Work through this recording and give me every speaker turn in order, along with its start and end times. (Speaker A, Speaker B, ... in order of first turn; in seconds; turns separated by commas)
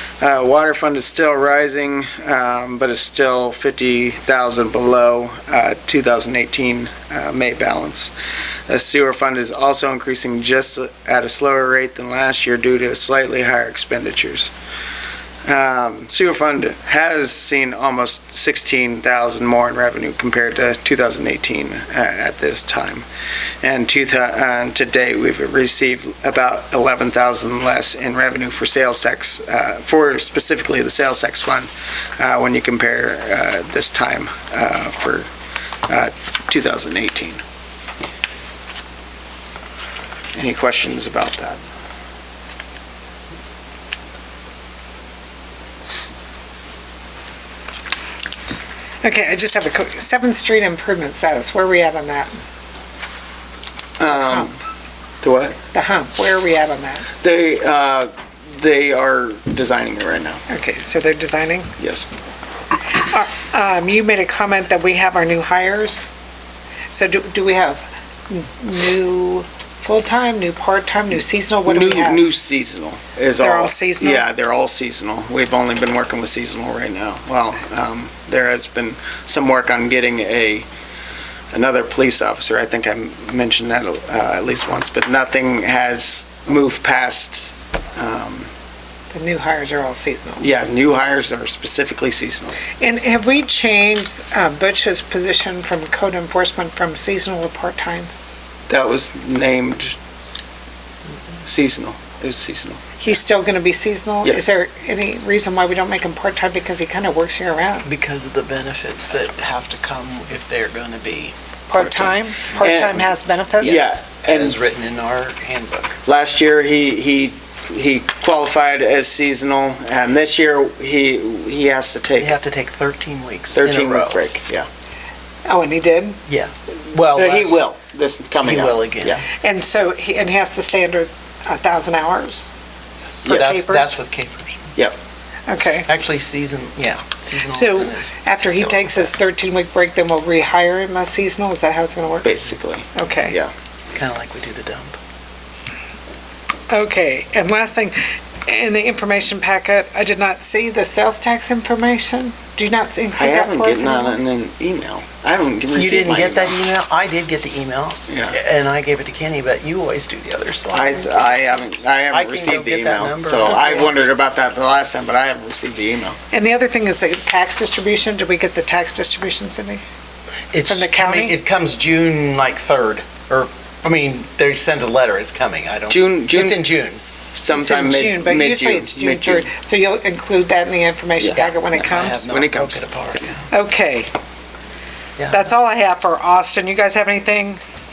Speaker A: 0.2-8.1, Speaker A: 8.7-14.5, Speaker A: 15.4-23.1, Speaker A: 23.6-35.3, Speaker A: 35.9-37.4, Speaker A: 40.3-41.6, Speaker B: 49.0-52.3, Speaker A: 54.0-54.6, Speaker B: 54.1-54.5, Speaker A: 55.2-55.6, Speaker B: 55.7-57.1, Speaker A: 57.2-60.4, Speaker B: 60.5-61.7, Speaker A: 61.8-62.1, Speaker B: 62.9-66.1, Speaker B: 66.9-72.2, Speaker A: 71.7-80.7, Speaker B: 73.4-74.3, Speaker A: 81.5-88.5, Speaker B: 89.1-90.5, Speaker A: 90.4-92.6, Speaker B: 92.8-98.1, Speaker A: 98.7-100.0, Speaker A: 101.4-103.2, Speaker B: 103.0-107.9, Speaker C: 107.8-112.7, Speaker B: 111.7-113.8, Speaker A: 112.6-114.6, Speaker C: 113.6-116.0, Speaker A: 116.0-122.3, Speaker C: 122.2-124.3, Speaker A: 123.5-124.7, Speaker B: 125.5-126.2, Speaker C: 126.3-127.6, Speaker A: 127.1-129.2, Speaker C: 128.4-129.2, Speaker B: 129.4-132.5, Speaker C: 133.2-134.7, Speaker B: 133.2-134.0, Speaker A: 133.3-133.6, Speaker B: 135.5-135.9, Speaker C: 135.8-139.1, Speaker B: 137.5-143.3, Speaker A: 142.2-143.5, Speaker C: 143.9-145.0, Speaker B: 146.7-147.9, Speaker B: 148.5-154.2, Speaker A: 153.2-156.6, Speaker C: 155.7-163.9, Speaker A: 158.1-158.4, Speaker A: 160.7-166.2, Speaker B: 166.3-169.8, Speaker C: 170.5-177.0, Speaker B: 170.7-171.4, Speaker A: 175.9-176.7, Speaker A: 177.4-179.5, Speaker B: 177.5-182.3, Speaker A: 181.2-181.5, Speaker C: 181.5-183.4, Speaker A: 182.3-182.8, Speaker B: 183.5-184.1, Speaker C: 185.2-185.5, Speaker B: 185.3-187.6